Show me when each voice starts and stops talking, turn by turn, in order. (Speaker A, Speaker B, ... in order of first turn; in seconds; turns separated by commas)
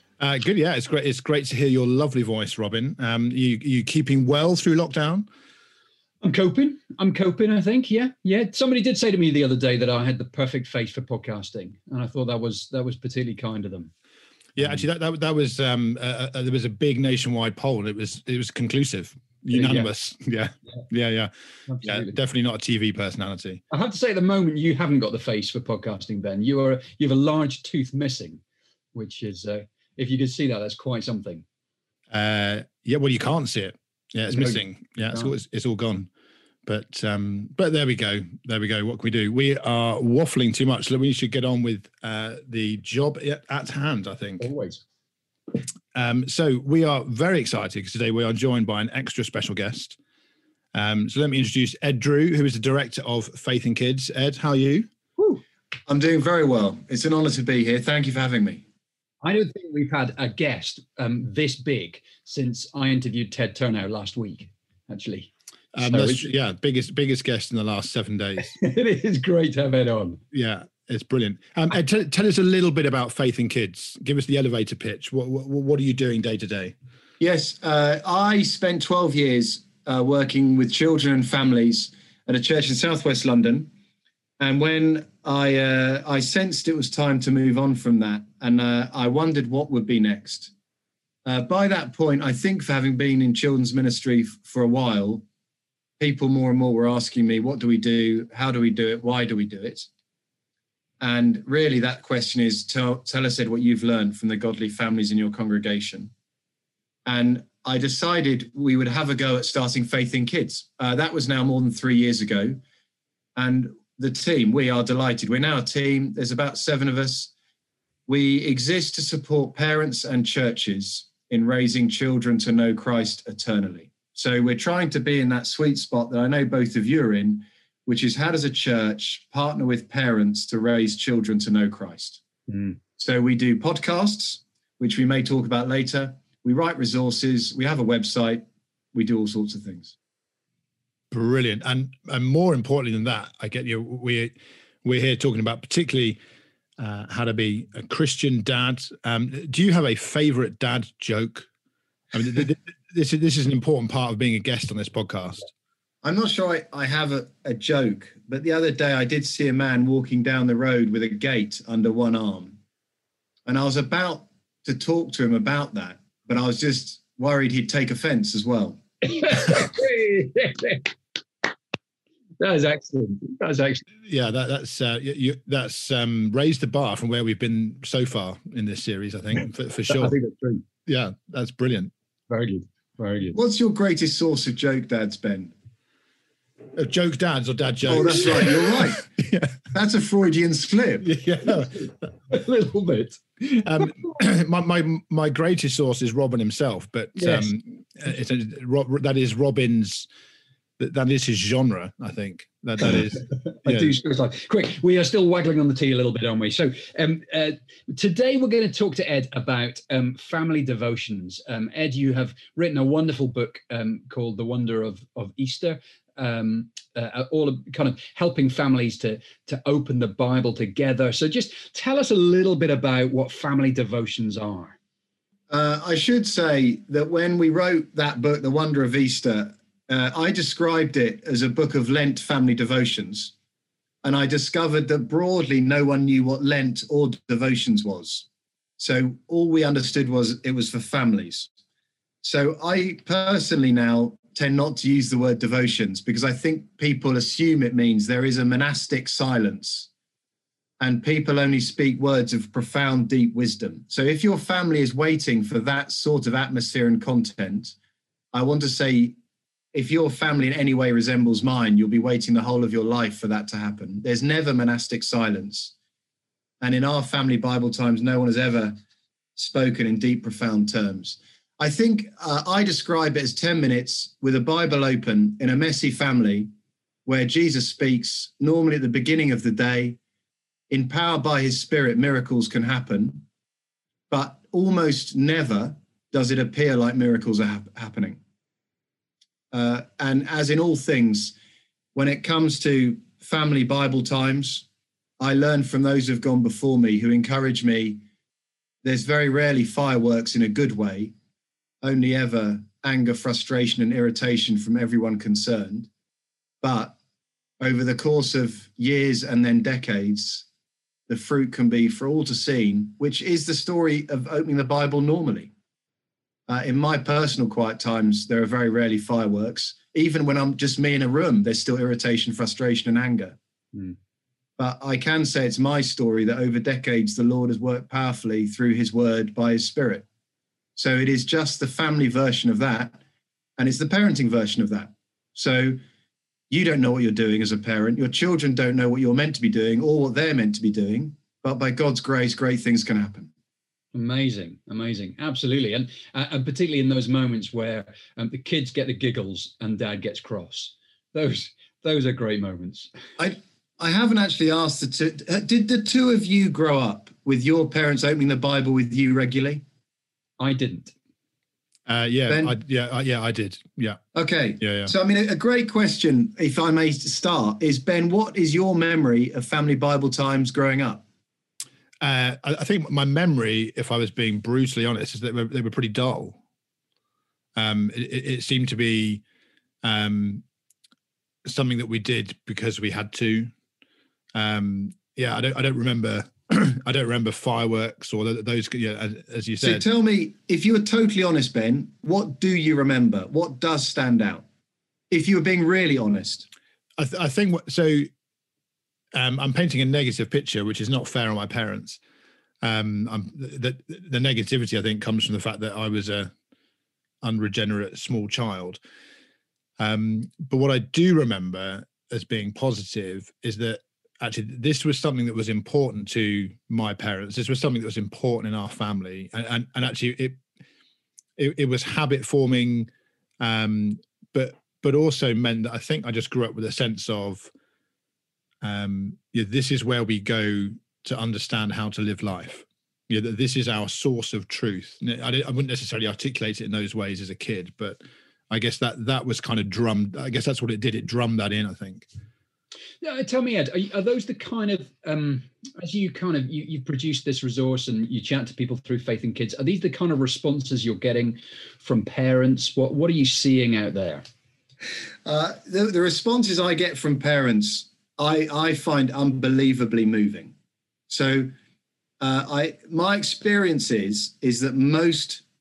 Speaker A: 0.2-5.3, Speaker B: 6.2-13.9, Speaker A: 14.6-21.3, Speaker B: 14.6-14.8, Speaker B: 19.5-19.9, Speaker B: 21.7-22.2, Speaker A: 21.8-23.6, Speaker B: 23.7-28.4, Speaker B: 28.9-31.4, Speaker A: 32.1-36.1, Speaker B: 34.3-35.3, Speaker A: 36.6-44.5, Speaker B: 44.4-44.8, Speaker A: 45.9-50.0, Speaker A: 50.7-54.9, Speaker B: 55.2-55.4, Speaker C: 55.9-58.6, Speaker B: 59.2-66.3, Speaker A: 65.7-68.5, Speaker B: 68.4-70.2, Speaker A: 70.3-76.7, Speaker C: 77.2-83.7, Speaker C: 84.4-90.5, Speaker C: 91.2-95.2, Speaker C: 96.0-99.9, Speaker C: 101.0-106.1, Speaker C: 107.0-112.6, Speaker C: 113.3-117.3, Speaker C: 118.1-132.2, Speaker B: 132.5-132.8, Speaker C: 133.0-139.9, Speaker A: 141.1-146.2, Speaker A: 146.8-151.5, Speaker A: 152.1-155.5, Speaker C: 156.0-162.6, Speaker C: 163.4-168.8, Speaker B: 169.0-170.9, Speaker B: 172.4-173.8, Speaker A: 174.1-180.2, Speaker B: 179.9-180.6, Speaker A: 180.8-181.9, Speaker B: 182.3-183.4, Speaker C: 183.3-185.5, Speaker A: 186.7-189.5, Speaker C: 187.9-189.0, Speaker C: 189.7-191.1, Speaker A: 191.0-191.8, Speaker B: 191.4-193.9, Speaker A: 193.6-200.1, Speaker B: 197.2-197.5, Speaker A: 200.8-203.9, Speaker B: 203.6-224.8, Speaker C: 225.5-233.3, Speaker C: 234.0-238.2, Speaker C: 238.8-241.5, Speaker C: 242.2-249.9, Speaker C: 250.8-257.8, Speaker C: 258.3-259.2, Speaker C: 259.7-265.7, Speaker C: 266.6-268.8, Speaker C: 269.4-276.5, Speaker C: 277.1-280.0, Speaker C: 280.7-283.2, Speaker C: 284.1-288.2, Speaker C: 289.5-291.3, Speaker C: 291.9-294.6, Speaker C: 295.2-298.0, Speaker C: 298.8-301.1, Speaker C: 301.8-305.9, Speaker C: 306.6-306.9, Speaker C: 307.6-310.4, Speaker C: 311.1-315.5, Speaker C: 316.5-323.4, Speaker C: 324.6-330.1, Speaker C: 330.8-333.0, Speaker C: 333.6-335.8, Speaker C: 336.5-343.3, Speaker B: 343.9-352.9, Speaker C: 353.2-359.6, Speaker B: 360.4-360.9, Speaker A: 361.9-364.0, Speaker C: 362.3-362.6, Speaker C: 364.1-371.0, Speaker A: 364.6-364.9, Speaker A: 372.0-376.4, Speaker A: 377.6-379.2, Speaker A: 379.8-380.4, Speaker A: 381.4-383.5, Speaker A: 384.3-389.8, Speaker C: 389.6-394.4, Speaker C: 395.1-396.4, Speaker A: 397.0-398.1, Speaker A: 399.1-402.0, Speaker A: 402.6-406.3, Speaker A: 407.2-408.8, Speaker A: 409.8-420.4, Speaker A: 421.4-422.9, Speaker A: 423.4-427.5, Speaker A: 428.6-442.1, Speaker B: 443.0-454.2, Speaker C: 455.2-460.5, Speaker C: 461.1-461.5, Speaker C: 462.2-465.4